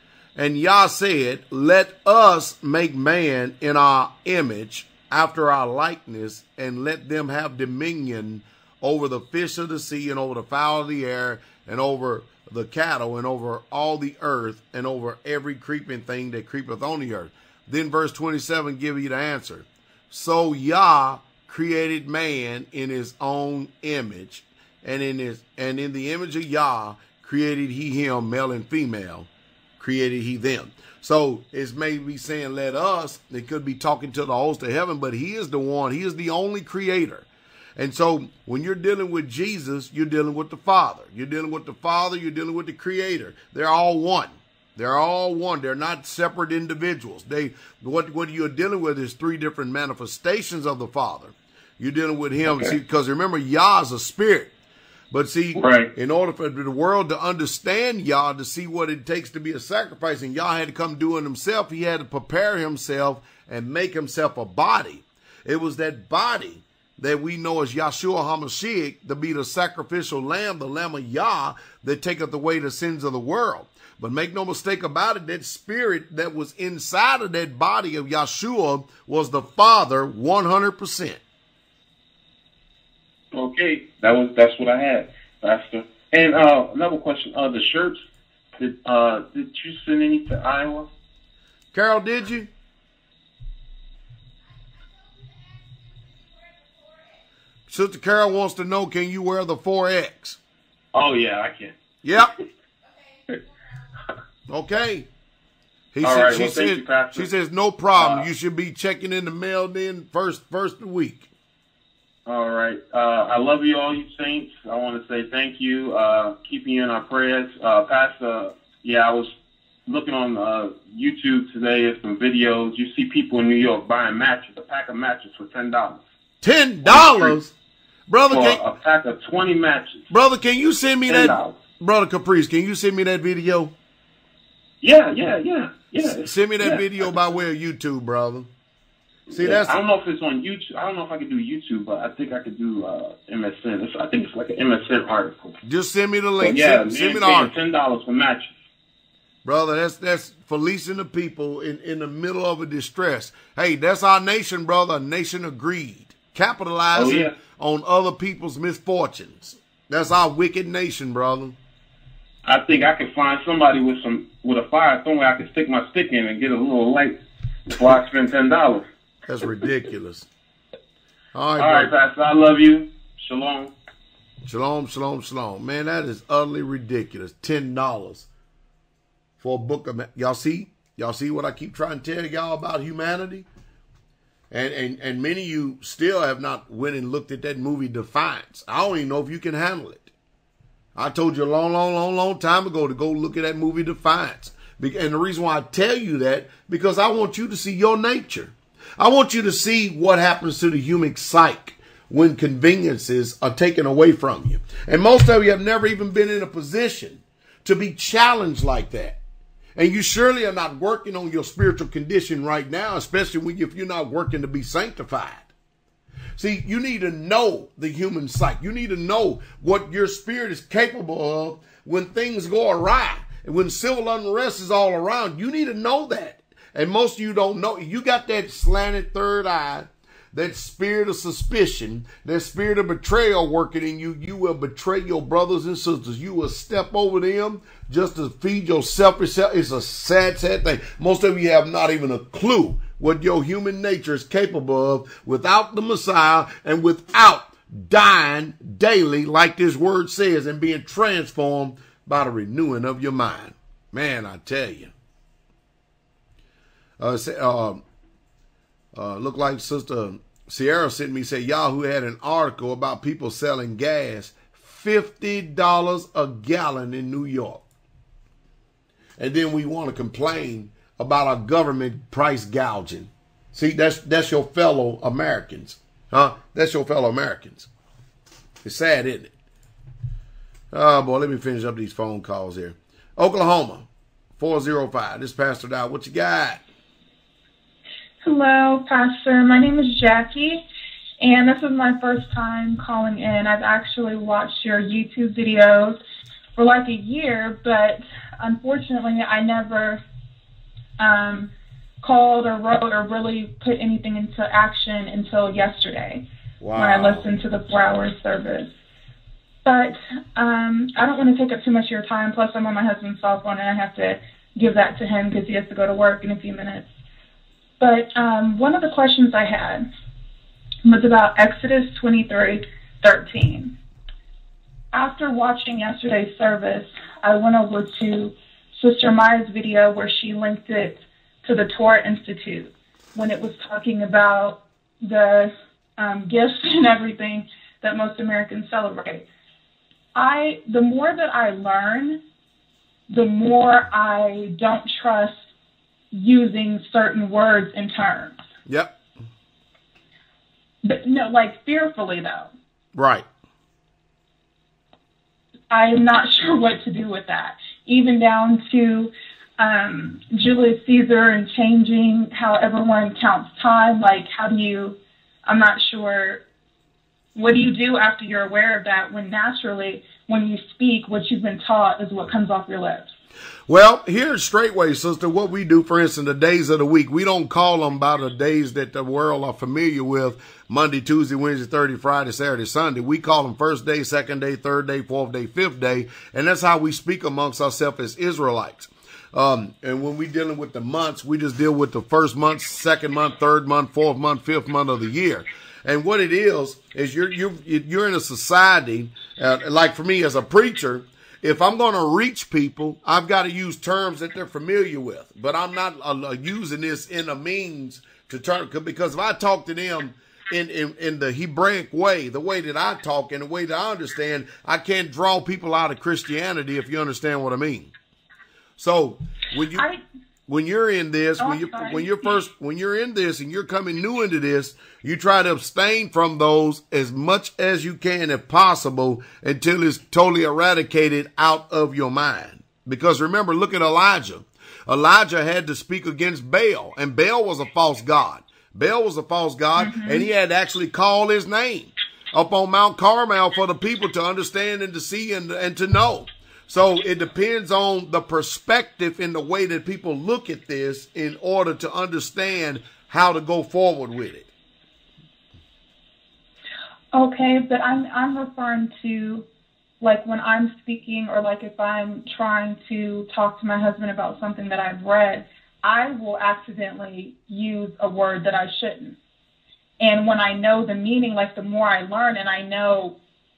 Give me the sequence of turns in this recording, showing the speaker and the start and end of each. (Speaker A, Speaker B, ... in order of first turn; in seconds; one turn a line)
Speaker A: 0.4-54.5
Speaker A: 55.1-81.2
Speaker B: 55.6-55.9
Speaker B: 83.3-88.0
Speaker B: 88.6-90.9
Speaker A: 91.7-92.5
Speaker A: 97.7-100.4
Speaker B: 100.9-101.7
Speaker A: 102.0-102.3
Speaker A: 104.5-105.1
Speaker A: 105.9-111.3
Speaker B: 106.0-107.3
Speaker B: 108.0-108.3
Speaker B: 112.3-119.3
Speaker B: 119.9-126.0
Speaker A: 126.4-127.5
Speaker B: 126.9-127.3
Speaker A: 128.1-128.6
Speaker B: 128.3-130.0
Speaker A: 130.1-133.7
Speaker B: 131.1-131.5
Speaker B: 134.8-137.1
Speaker A: 136.2-138.5
Speaker A: 139.3-139.8
Speaker B: 139.3-145.5
Speaker A: 145.7-147.5
Speaker B: 146.4-148.5
Speaker A: 149.4-161.6
Speaker B: 156.9-157.3
Speaker B: 162.5-167.1
Speaker B: 167.7-168.8
Speaker A: 169.3-170.3
Speaker A: 171.3-171.9
Speaker B: 171.6-173.7
Speaker A: 174.4-178.3
Speaker A: 179.4-183.5
Speaker A: 184.5-190.1
Speaker A: 191.0-209.2
Speaker A: 209.8-215.5
Speaker A: 216.4-254.9
Speaker A: 257.0-257.8
Speaker A: 258.9-267.6
Speaker A: 269.2-277.7
Speaker A: 278.6-279.3
Speaker A: 280.7-283.9
Speaker A: 284.4-286.6
Speaker C: 288.2-290.6
Speaker C: 291.2-296.0
Speaker C: 296.6-300.0
Speaker C: 301.0-301.5
Speaker C: 302.0-306.2
Speaker A: 306.6-307.3
Speaker C: 306.8-308.7
Speaker C: 309.6-316.9
Speaker C: 317.8-319.9
Speaker C: 320.8-323.7
Speaker C: 324.9-339.2
Speaker C: 340.1-342.2
Speaker C: 343.1-345.3
Speaker C: 346.1-348.4
Speaker A: 348.7-348.9
Speaker C: 350.8-352.5
Speaker A: 352.9-353.3
Speaker C: 355.7-366.4
Speaker C: 367.4-373.1
Speaker A: 373.7-417.9
Speaker A: 418.8-419.9
Speaker C: 419.7-420.0
Speaker A: 420.5-454.5
Speaker C: 421.4-422.5
Speaker C: 439.8-440.3
Speaker C: 457.1-459.5
Speaker C: 460.0-469.2
Speaker C: 470.0-473.2